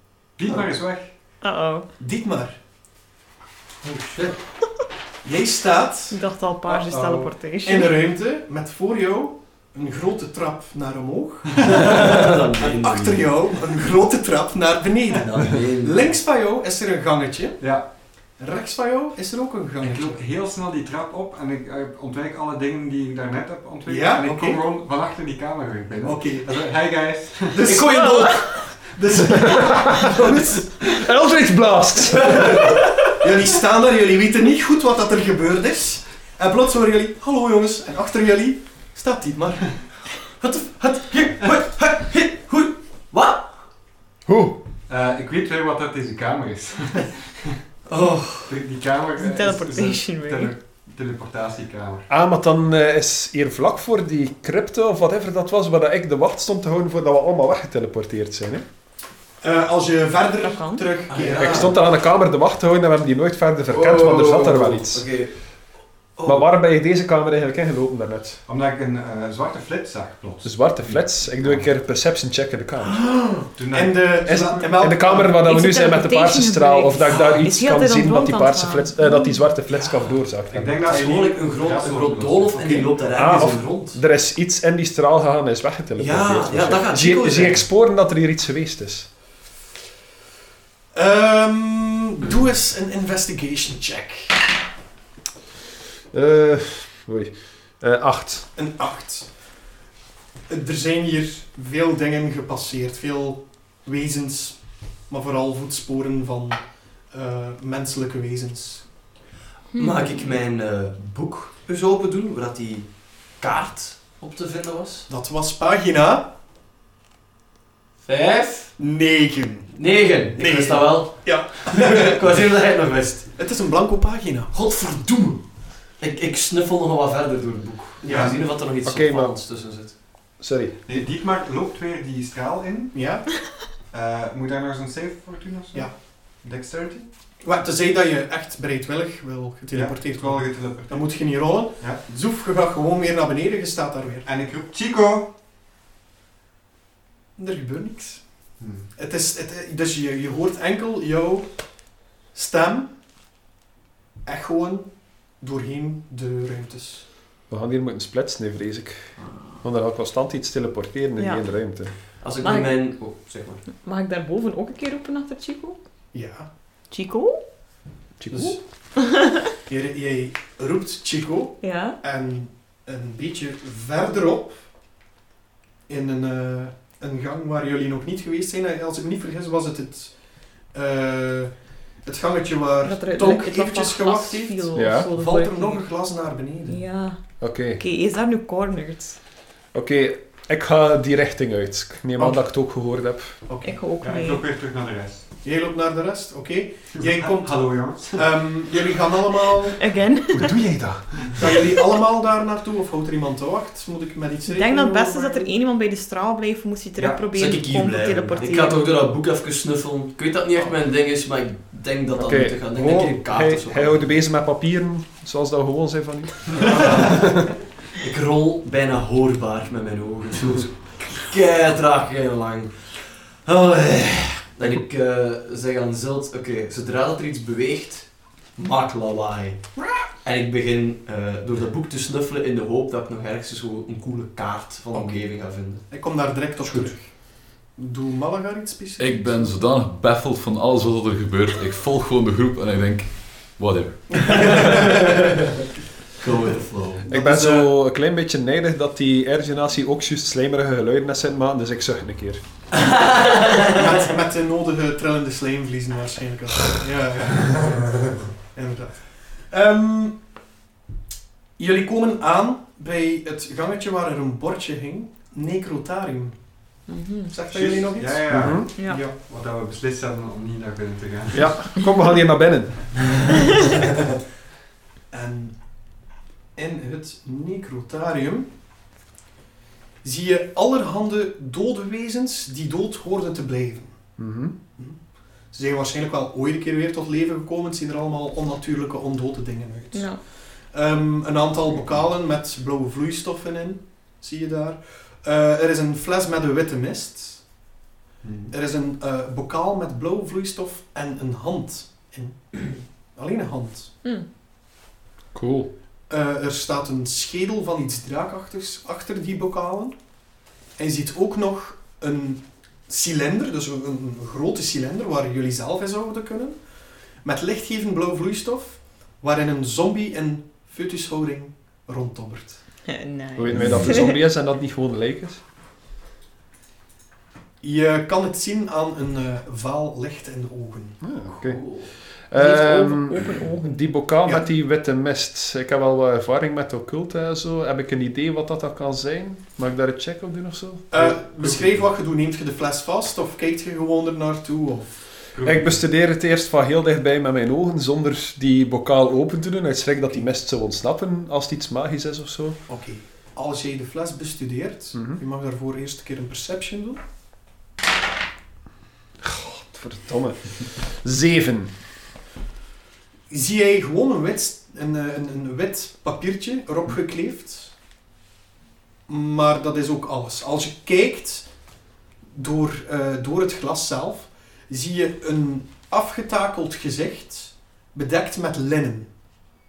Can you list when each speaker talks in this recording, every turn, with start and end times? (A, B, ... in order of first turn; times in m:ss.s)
0:00.4-0:01.1 A
0:01.4-0:01.9 B
0:02.0-0:02.5 C
0:03.8-0:04.4 D
0:05.2-0:06.2 C
0:06.1-0:08.0 B
0:06.8-0:07.3 A
0:07.6-0:17.7 C
0:11.7-0:13.3 D
0:15.1-0:16.1 D
0:17.6-0:17.9 A
0:18.4-0:20.2 C
0:19.8-0:27.7 A
0:23.8-0:24.6 C
0:26.0-0:26.5 C
0:27.5-0:30.6 C
0:27.6-0:28.6 D
0:28.1-0:28.7 B
0:29.2-0:32.8 E
0:32.1-0:33.2 D
0:33.2-0:39.8 C
0:40.4-0:43.5 D
0:44.2-0:44.6 E
0:44.9-0:47.5 A
0:47.9-0:48.6 D
0:48.5-0:52.1 A
0:49.2-0:50.5 B
0:52.1-0:58.6 E
0:59.4-1:01.7 C
1:00.4-1:00.9 B
1:01.1-1:01.7 D
1:01.4-1:05.1 E
1:03.7-1:05.3 D
1:06.2-1:06.4 D
1:06.2-1:08.4 E
1:08.4-1:11.7 A
1:10.4-1:13.0 E
1:13.1-1:15.3 C
1:13.6-1:14.8 A
1:14.2-1:21.0 E
1:15.3-1:19.6 B
1:19.7-1:20.1 D
1:20.5-1:22.9 A
1:20.8-1:24.0 D
1:22.6-1:22.8 C
1:23.1-1:29.1 E
1:26.0-1:27.6 D
1:30.9-1:34.4 C
1:36.1-1:38.5 E
1:38.5-1:39.3 C
1:40.5-1:48.9 C
1:49.8-1:50.1 B
1:49.8-1:55.1 D
1:55.1-1:56.3 C
1:58.0-1:58.8 D
1:58.8-2:02.2 C
1:59.7-2:03.3 D
2:03.3-2:04.5 C
2:04.5-2:05.4 D
2:06.0-2:10.0 D
2:08.0-2:08.4 C
2:08.1-2:08.4 A
2:08.8-2:09.4 E
2:10.4-2:10.7 E
2:10.8-2:13.0 A
2:12.9-2:13.2 C
2:13.9-2:17.1 A
2:17.4-2:24.3 C
2:19.7-2:22.0 A
2:24.2-2:25.3 A
2:27.4-2:28.2 C
2:28.6-2:28.9 A
2:28.9-2:31.6 C
2:32.3-2:32.9 C
2:34.2-2:37.0 C
2:37.5-2:41.9 E
2:41.2-2:41.6 B
2:42.2-2:43.6 D
2:42.4-2:42.9 B
2:43.6-2:45.8 B
2:46.1-2:46.5 C
2:46.9-2:47.4 B
2:48.2-2:48.6 E
2:49.0-2:49.4 B
2:49.7-2:54.6 C
2:51.6-2:52.0 B
2:55.9-3:00.2 C
3:00.7-3:06.8 C
3:02.8-3:05.9 B
3:04.7-3:05.1 E
3:06.7-3:09.2 B
3:07.4-3:07.8 E
3:09.7-3:13.4 E
3:12.2-3:12.4 C
3:13.5-3:13.8 C
3:13.6-3:14.4 B
3:14.0-3:15.3 A
3:15.4-3:19.8 C
3:16.9-3:18.9 A
3:19.8-3:20.6 B
3:20.4-3:21.6 A
3:21.2-3:25.5 C
3:24.4-3:28.8 B
3:27.0-3:27.3 A
3:27.3-3:34.0 D
3:32.1-3:37.5 E
3:38.0-3:49.7 D
3:50.2-3:55.8 D
3:55.7-3:59.5 C
3:59.0-4:04.9 F
4:04.2-4:05.0 C
4:04.3-4:05.5 D
4:06.2-4:07.1 D
4:07.1-4:12.4 E
4:07.1-4:07.7 C
4:12.7-4:13.8 D
4:13.5-4:20.2 C
4:21.6-4:26.4 C
4:26.9-4:27.3 B
4:27.3-4:28.6 C
4:27.5-4:31.5 A
4:28.3-4:28.7 E
4:28.7-4:29.0 B
4:31.3-4:33.1 E
4:35.1-4:35.5 C
4:36.6-4:38.5 C
4:40.0-4:44.0 C
4:44.2-4:44.5 E
4:45.5-4:57.4 C
4:49.9-4:50.2 B
4:58.2-4:58.5 A
4:58.5-5:03.9 C
5:05.3-5:05.7 E
5:06.1-5:10.0 C
5:10.8-5:16.6 C
5:17.2-5:22.6 C
5:22.8-5:24.2 B
5:23.4-5:25.4 E
5:23.6-5:23.9 F
5:27.6-5:31.1 C
5:31.0-5:40.9 E
5:31.4-5:31.9 D
5:32.3-5:33.8 B
5:40.9-5:45.0 C
5:40.9-5:41.8 A
5:45.3-5:45.8 A
5:45.4-5:52.6 E
5:52.7-5:57.0 C
5:54.9-5:55.2 E
5:59.2-6:01.8 E
6:03.3-6:07.7 C
6:09.1-6:11.5 C
6:12.3-6:19.1 C